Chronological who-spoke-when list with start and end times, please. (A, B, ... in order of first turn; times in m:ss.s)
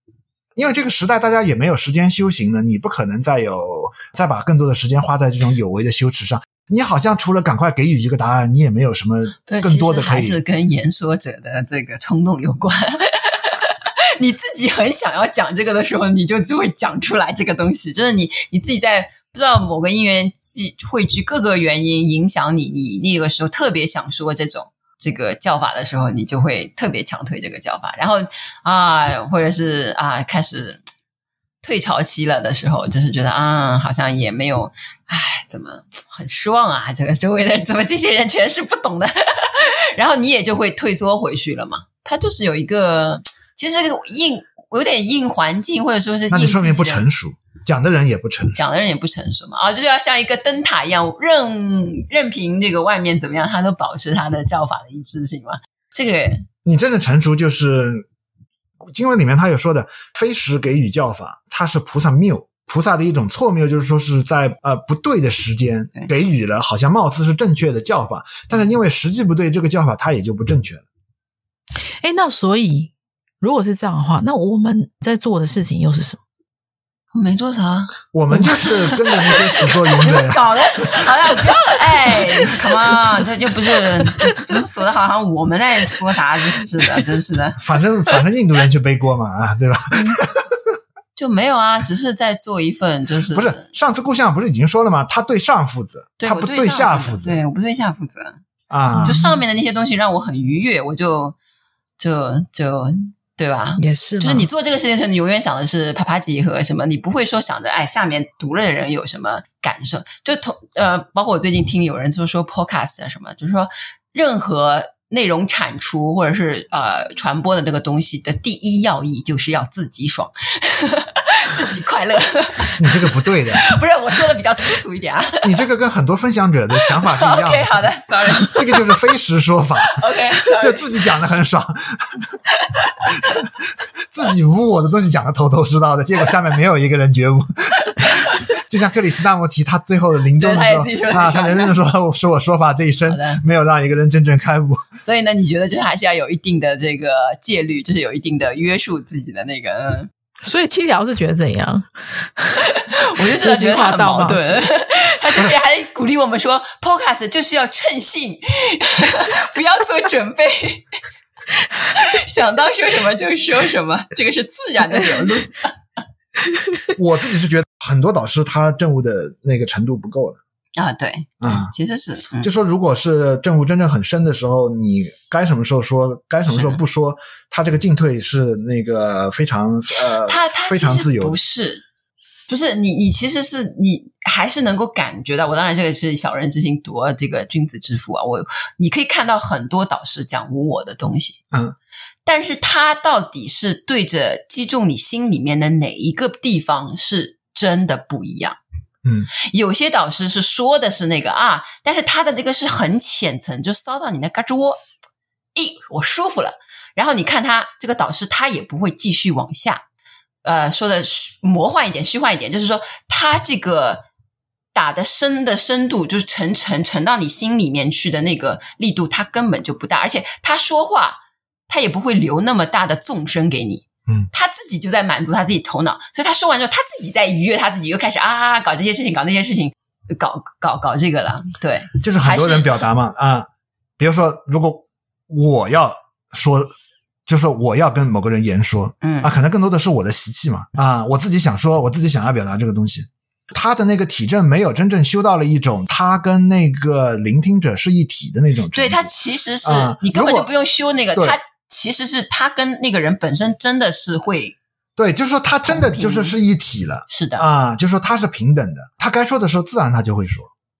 0:00.6-0:10.4 A
0:09.5-0:30.8 B
0:31.6-0:47.1 B
0:46.3-0:48.6 A
0:48.6-0:56.5 B
0:56.6-0:58.1 A
0:58.9-1:10.8 A
1:12.0-1:16.2 C
1:17.1-1:27.6 B
1:18.1-1:21.2 A
1:27.6-1:30.8 A
1:31.2-1:33.7 B
1:33.3-1:37.4 A
1:36.2-1:38.4 B
1:38.7-1:39.2 A
1:38.9-1:39.4 C
1:39.0-1:41.4 B
1:42.0-2:05.6 B
1:43.8-1:44.5 C
2:02.8-2:03.6 A
2:05.4-2:07.9 A
2:06.8-2:09.0 B
2:08.4-2:12.2 A
2:09.9-2:10.9 B
2:12.7-2:13.3 B
2:13.2-2:13.5 A
2:14.1-2:24.9 A
2:18.0-2:18.5 B
2:20.4-2:21.8 B
2:23.1-2:23.4 B
2:25.0-2:30.1 B
2:30.4-2:34.7 C
2:32.6-2:40.9 B
2:41.9-2:45.7 B
2:46.5-2:46.9 C
2:47.0-2:50.4 A
2:50.8-2:52.5 B
2:51.4-2:51.7 A
2:52.4-3:01.4 A
2:56.5-2:56.8 B
3:00.2-3:01.8 B
3:02.5-3:11.4 B
3:12.3-3:18.6 B
3:19.0-3:19.3 A
3:19.4-3:24.8 B
3:25.6-3:29.8 B
3:30.4-3:34.0 B
3:34.7-3:52.8 B
3:52.0-3:53.5 A
3:54.0-3:56.7 A
3:57.3-4:09.1 A
3:59.0-3:59.3 B
4:08.7-4:14.6 B
4:09.6-4:10.5 A
4:15.0-4:20.5 A
4:15.7-4:16.4 B
4:17.1-4:17.5 B